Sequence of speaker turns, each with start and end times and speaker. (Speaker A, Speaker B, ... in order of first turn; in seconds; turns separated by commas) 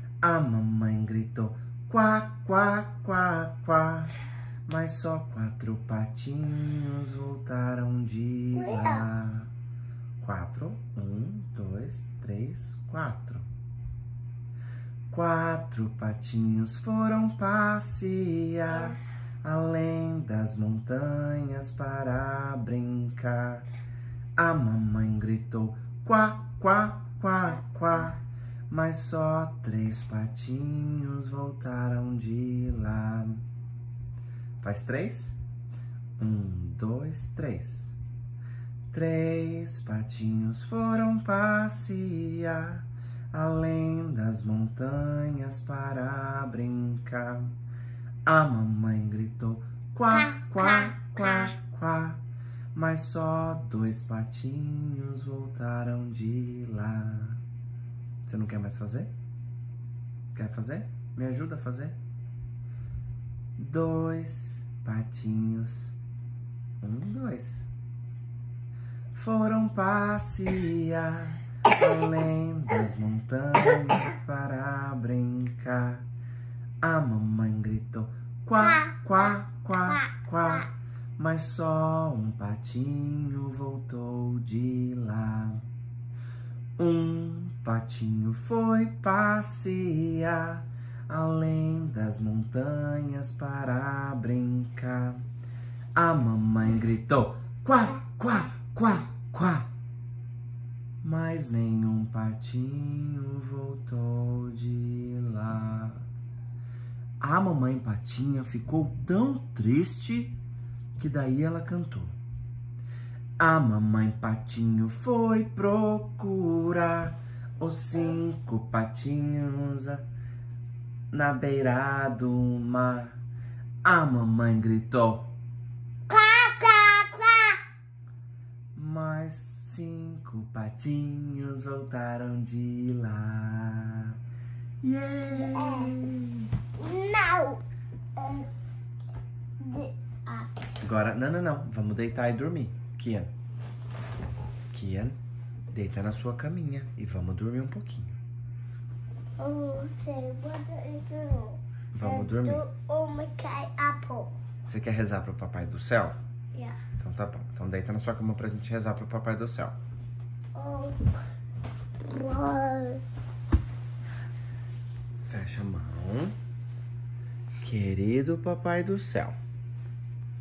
Speaker A: 0.2-4.1, Speaker A: 4.7-9.5, Speaker B: 8.5-9.1, Speaker A: 10.2-13.5, Speaker A: 15.1-23.7, Speaker A: 24.4-33.4, Speaker A: 34.6-35.4, Speaker A: 36.2-37.9, Speaker A: 38.9-47.5, Speaker A: 48.2-52.2, Speaker B: 50.1-51.5, Speaker A: 52.7-57.4, Speaker A: 58.2-59.1, Speaker A: 60.3-62.0, Speaker A: 63.6-65.9, Speaker A: 66.8-67.7, Speaker A: 69.1-76.0, Speaker A: 76.8-85.7, Speaker B: 78.6-79.2, Speaker A: 86.8-95.2, Speaker A: 95.9-99.7, Speaker A: 101.0-106.0, Speaker A: 107.2-110.4, Speaker A: 111.0-112.2, Speaker A: 113.4-120.0, Speaker A: 121.1-123.2, Speaker A: 123.8-125.3, Speaker B: 126.1-127.6, Speaker A: 128.7-134.2, Speaker A: 134.8-136.5, Speaker B: 135.3-135.9, Speaker B: 136.8-137.6, Speaker B: 138.2-138.5, Speaker B: 139.6-140.6, Speaker A: 140.8-143.3, Speaker A: 144.7-145.2, Speaker A: 145.7-148.2, Speaker B: 149.4-154.3, Speaker A: 151.9-152.6, Speaker A: 154.7-156.2, Speaker A: 157.0-159.8, Speaker B: 160.5-161.0, Speaker B: 162.1-163.0, Speaker A: 165.3-166.3, Speaker A: 167.6-169.3